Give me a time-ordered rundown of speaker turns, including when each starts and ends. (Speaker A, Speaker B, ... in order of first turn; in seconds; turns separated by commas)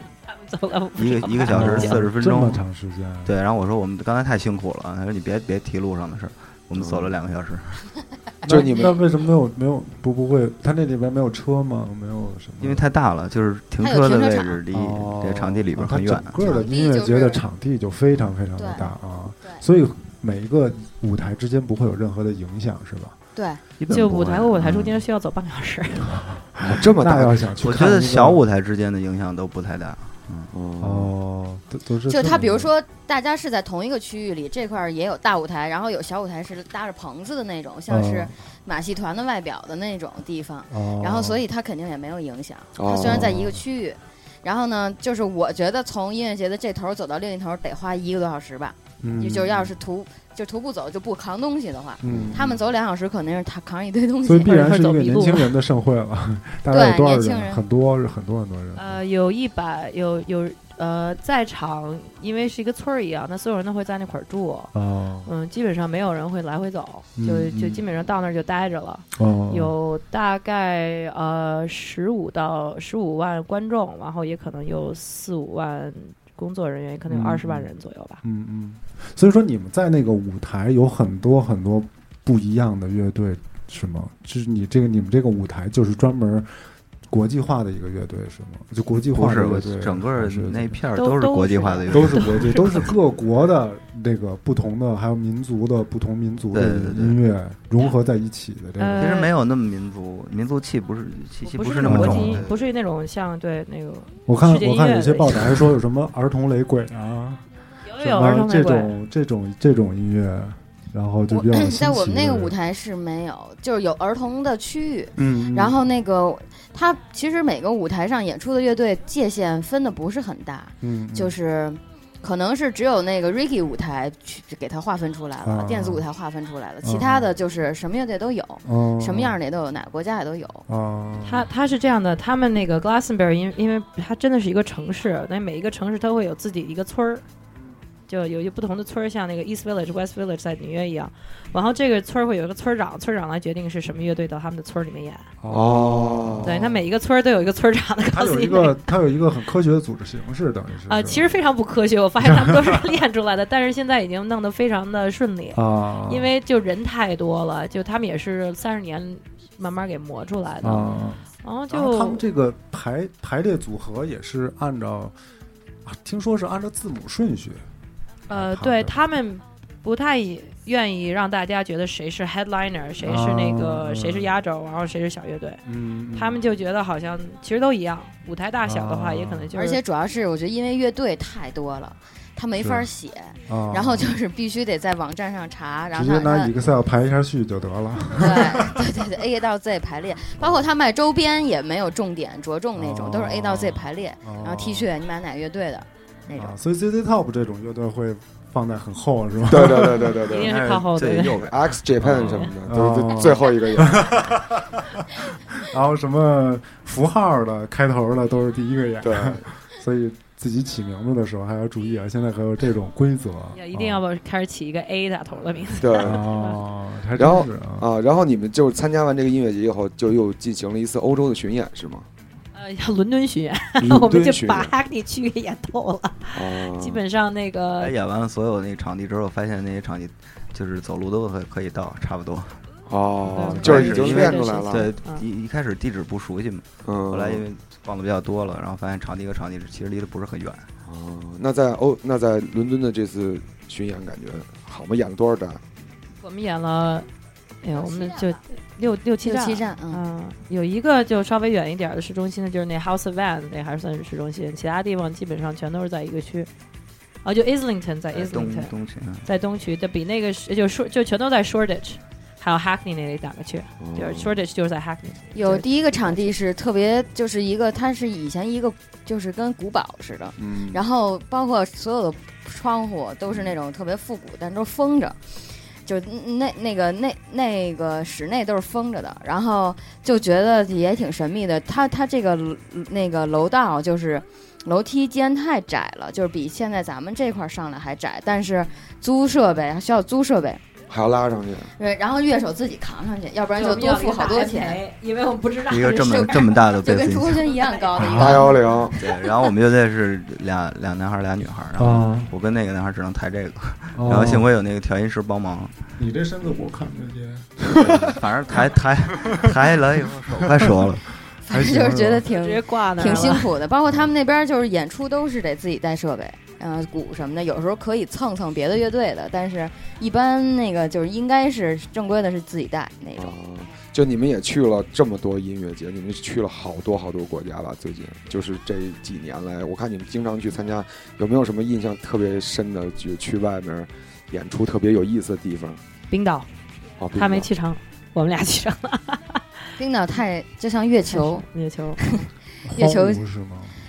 Speaker A: 0.3-2.0, Speaker B: 1.0-2.6, Speaker C: 1.5-3.3, Speaker B: 3.2-7.8, Speaker D: 6.8-7.1, Speaker C: 8.4-12.9, Speaker E: 8.5-9.0, Speaker D: 8.5-8.9, Speaker B: 12.6-16.4, Speaker E: 13.8-14.6, Speaker C: 14.7-23.2, Speaker E: 16.4-17.4, Speaker E: 18.6-18.9, Speaker E: 23.4-23.6, Speaker B: 23.8-25.0, Speaker A: 23.9-26.2, Speaker C: 26.2-28.4, Speaker D: 26.6-27.6, Speaker B: 27.6-30.5, Speaker D: 30.5-31.1, Speaker C: 30.8-32.7, Speaker E: 32.1-54.7, Speaker C: 37.9-38.3, Speaker C: 40.7-41.4, Speaker D: 42.8-43.3, Speaker C: 43.0-43.6, Speaker C: 49.0-49.7, Speaker C: 52.0-52.6, Speaker D: 52.0-52.4, Speaker C: 54.2-59.0, Speaker A: 54.4-55.5, Speaker E: 56.7-57.6, Speaker A: 58.8-64.7, Speaker C: 64.7-65.3, Speaker A: 65.2-78.2, Speaker C: 67.2-67.8, Speaker C: 69.2-69.7, Speaker C: 77.1-77.7, Speaker C: 78.2-86.5, Speaker C: 87.1-90.8, Speaker B: 89.1-92.4, Speaker A: 91.0-92.9, Speaker C: 91.9-99.2, Speaker B: 96.5-97.2, Speaker A: 98.8-99.3, Speaker B: 99.0-102.7, Speaker A: 101.4-105.6, Speaker C: 101.8-102.5, Speaker C: 104.3-107.4, Speaker A: 107.8-109.0, Speaker C: 108.0-112.5, Speaker E: 111.3-130.7, Speaker C: 115.2-115.8, Speaker C: 120.8-121.4, Speaker C: 125.4-126.0, Speaker C: 126.8-127.3, Speaker C: 128.7-129.4, Speaker C: 130.7-131.5, Speaker A: 131.2-137.2, Speaker A: 138.1-145.3, Speaker C: 145.4-146.6, Speaker D: 145.5-146.6, Speaker A: 146.4-148.9, Speaker C: 148.1-151.4, Speaker A: 150.9-160.9, Speaker C: 152.2-152.8, Speaker C: 155.6-156.3, Speaker C: 160.6-165.2, Speaker A: 161.4-162.2, Speaker C: 165.8-167.7, Speaker A: 168.3-175.6, Speaker C: 168.3-169.0, Speaker C: 173.0-174.3, Speaker C: 175.7-176.4, Speaker A: 176.1-179.8, Speaker C: 178.6-179.5, Speaker E: 179.5-186.5, Speaker C: 182.6-182.9, Speaker C: 183.5-184.1, Speaker C: 185.9-188.8, Speaker E: 188.2-196.6, Speaker C: 192.8-194.9, Speaker C: 196.4-200.2, Speaker D: 199.5-200.5, Speaker A: 200.2-201.5, Speaker B: 200.3-202.4, Speaker D: 201.4-204.2, Speaker C: 202.7-214.0, Speaker D: 209.0-209.4, Speaker A: 213.5-216.6, Speaker D: 215.8-216.2, Speaker C: 216.0-217.9, Speaker D: 217.2-222.1, Speaker A: 222.6-227.9, Speaker D: 223.8-224.7, Speaker D: 226.3-227.0, Speaker B: 227.8-232.6, Speaker D: 232.9-234.9, Speaker A: 233.3-235.2, Speaker B: 233.5-240.7, Speaker D: 236.8-237.5, Speaker D: 240.8-245.6, Speaker A: 246.2-247.1, Speaker A: 247.6-256.5, Speaker E: 249.2-250.0, Speaker A: 257.2-258.7, Speaker B: 258.1-259.3, Speaker A: 259.2-266.3, Speaker D: 263.8-264.4, Speaker E: 265.3-275.3, Speaker D: 270.4-270.8, Speaker E: 275.8-290.6, Speaker D: 290.9-291.7, Speaker E: 291.8-294.8, Speaker A: 293.6-296.7, Speaker B: 295.7-297.5, Speaker E: 296.0-299.3, Speaker C: 298.0-298.4, Speaker D: 298.0-299.0, Speaker B: 299.0-305.8, Speaker C: 301.8-302.3, Speaker C: 303.9-304.5, Speaker C: 306.0-309.6, Speaker B: 307.8-311.1, Speaker C: 310.5-312.3, Speaker E: 311.5-323.4, Speaker A: 312.3-313.5, Speaker D: 323.2-335.8, Speaker A: 336.1-336.5, Speaker D: 337.0-337.5, Speaker A: 337.1-339.7, Speaker E: 339.8-341.4, Speaker A: 341.1-342.0, Speaker E: 342.0-343.2, Speaker C: 342.6-343.8